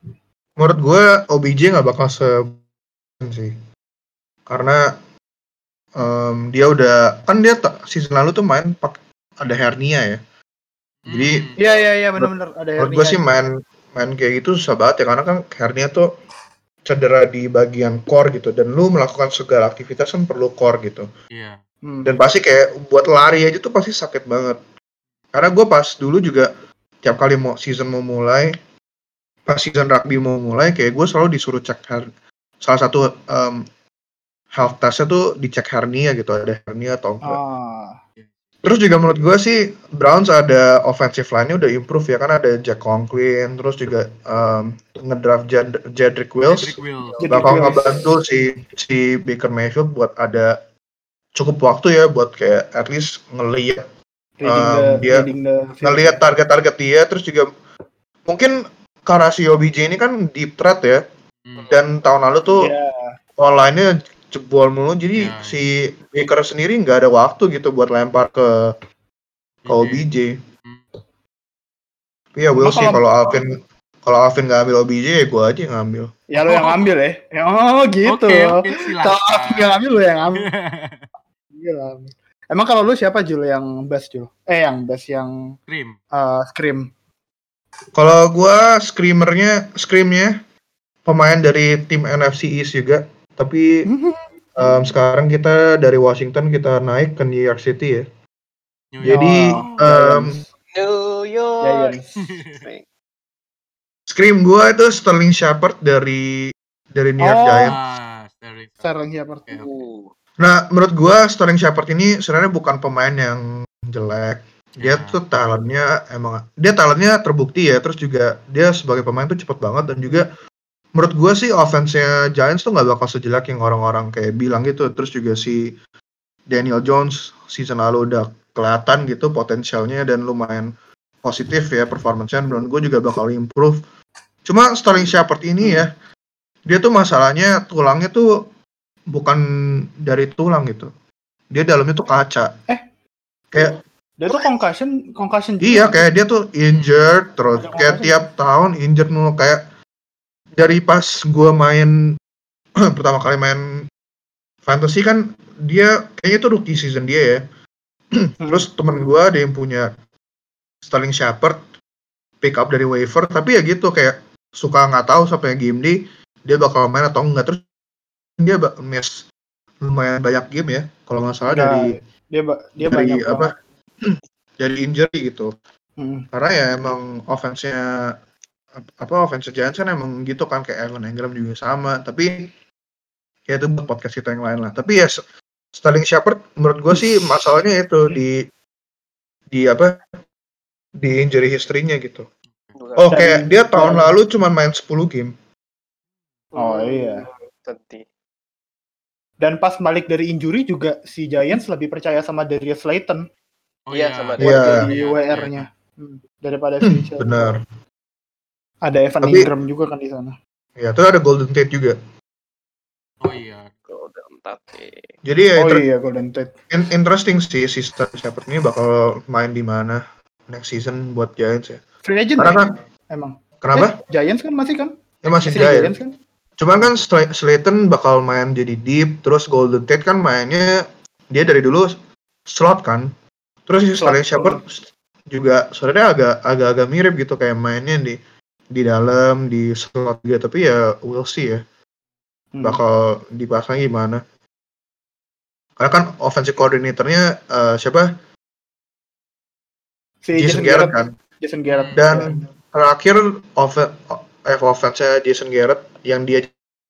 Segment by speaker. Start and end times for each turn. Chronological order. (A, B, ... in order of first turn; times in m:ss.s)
0:00.6-0:02.6 A
0:03.2-0:03.5 A
0:04.5-0:04.8 A
0:06.0-0:10.2 A
0:11.0-0:11.6 B
0:11.1-0:11.5 A
0:11.6-0:13.2 C
0:12.2-0:16.1 A
0:16.8-0:21.1 A
0:21.8-0:22.1 C
0:22.0-0:24.6 A
0:25.3-0:26.5 A
0:27.0-0:28.5 A
0:29.5-0:32.1 A
0:32.6-0:33.6 A
0:34.5-0:37.4 A
0:37.2-0:38.0 C
0:38.6-0:46.8 A
0:46.5-0:47.8 B
0:47.0-0:47.3 D
0:47.2-0:48.0 C
0:47.3-0:50.5 A
0:51.3-0:53.8 A
0:54.4-0:56.2 C
0:54.4-0:55.3 A
0:55.8-0:57.5 A
0:58.2-0:58.5 A
0:59.0-1:01.0 A
1:01.6-1:01.8 D
1:01.7-1:02.7 A
1:02.6-1:03.2 C
1:03.4-1:08.7 A
1:05.2-1:05.6 B
1:09.6-1:10.0 B
1:09.7-1:10.3 A
1:12.3-1:13.5 A
1:12.6-1:13.0 C
1:14.0-1:16.1 A
1:16.3-1:20.5 C
1:16.4-1:16.8 B
1:18.1-1:21.0 B
1:21.5-1:25.6 C
1:25.7-1:26.0 B
1:26.1-1:26.9 C
1:27.9-1:30.4 A
1:31.0-1:33.7 A
1:33.9-1:34.3 C
1:34.6-1:38.0 A
1:38.9-1:39.8 B
1:39.0-1:40.3 A
1:39.1-1:40.5 C
1:40.7-1:42.0 D
1:41.6-1:42.3 C
1:42.2-1:42.6 B
1:42.5-1:42.8 D
1:44.1-1:47.8 A
1:47.2-1:47.8 C
1:47.6-1:48.9 B
1:48.8-1:49.5 C
1:49.5-1:49.7 B
1:49.5-1:50.1 D
1:50.4-2:00.3 A
1:54.8-1:55.2 B
2:01.0-2:05.6 A
2:06.5-2:10.7 A
2:11.2-2:13.8 A
2:14.4-2:15.9 A
2:15.6-2:15.9 C
2:16.6-2:18.2 A
2:19.1-2:19.4 A
2:20.0-2:20.9 A
2:21.5-2:22.5 A
2:23.5-2:23.8 A
2:24.2-2:26.0 C
2:25.6-2:29.6 A
2:26.7-2:27.1 B
2:27.6-2:28.2 C
2:30.6-2:31.9 A
2:32.8-2:33.6 A
2:34.6-2:37.4 A
2:38.2-2:39.9 A
2:38.4-2:38.6 C
2:40.8-2:41.6 A
2:42.4-2:47.6 A
2:48.4-2:49.2 A
2:49.8-2:52.0 A
2:51.5-2:53.5 C
2:52.8-2:53.5 A
2:54.0-2:55.5 A
2:56.0-2:56.3 C
2:56.3-2:58.0 A
2:58.9-3:02.5 A
3:03.5-3:05.2 A
3:05.7-3:08.4 A
3:09.5-3:10.1 A
3:11.0-3:12.3 A
3:12.8-3:13.2 D
3:13.0-3:15.3 A
3:13.1-3:14.1 C
3:16.5-3:18.0 D
3:16.6-3:17.2 C
3:19.4-3:23.2 C
3:23.9-3:25.7 B
3:23.9-3:25.0 D
3:24.4-3:24.8 A
3:24.6-3:27.4 C
3:26.8-3:27.6 A
3:28.8-3:30.3 C
3:29.2-3:29.5 A
3:30.8-3:32.0 A
3:33.2-3:33.7 B
3:33.9-3:35.1 D
3:35.2-3:35.8 A
3:35.6-3:36.5 C
3:36.7-3:41.8 A
3:42.0-3:46.1 C
3:42.4-3:42.7 A
3:43.6-3:43.9 A
3:45.2-3:45.9 A
3:45.3-3:45.8 B
3:46.6-3:51.9 A
3:52.5-3:53.1 A
3:53.7-3:58.2 A
3:54.0-3:54.6 C
3:58.7-4:01.6 A
4:02.5-4:02.8 C
4:02.6-4:04.2 A
4:05.8-4:08.1 A
4:10.2-4:12.4 C
4:10.4-4:11.1 A
4:11.7-4:12.0 B
4:11.9-4:16.5 A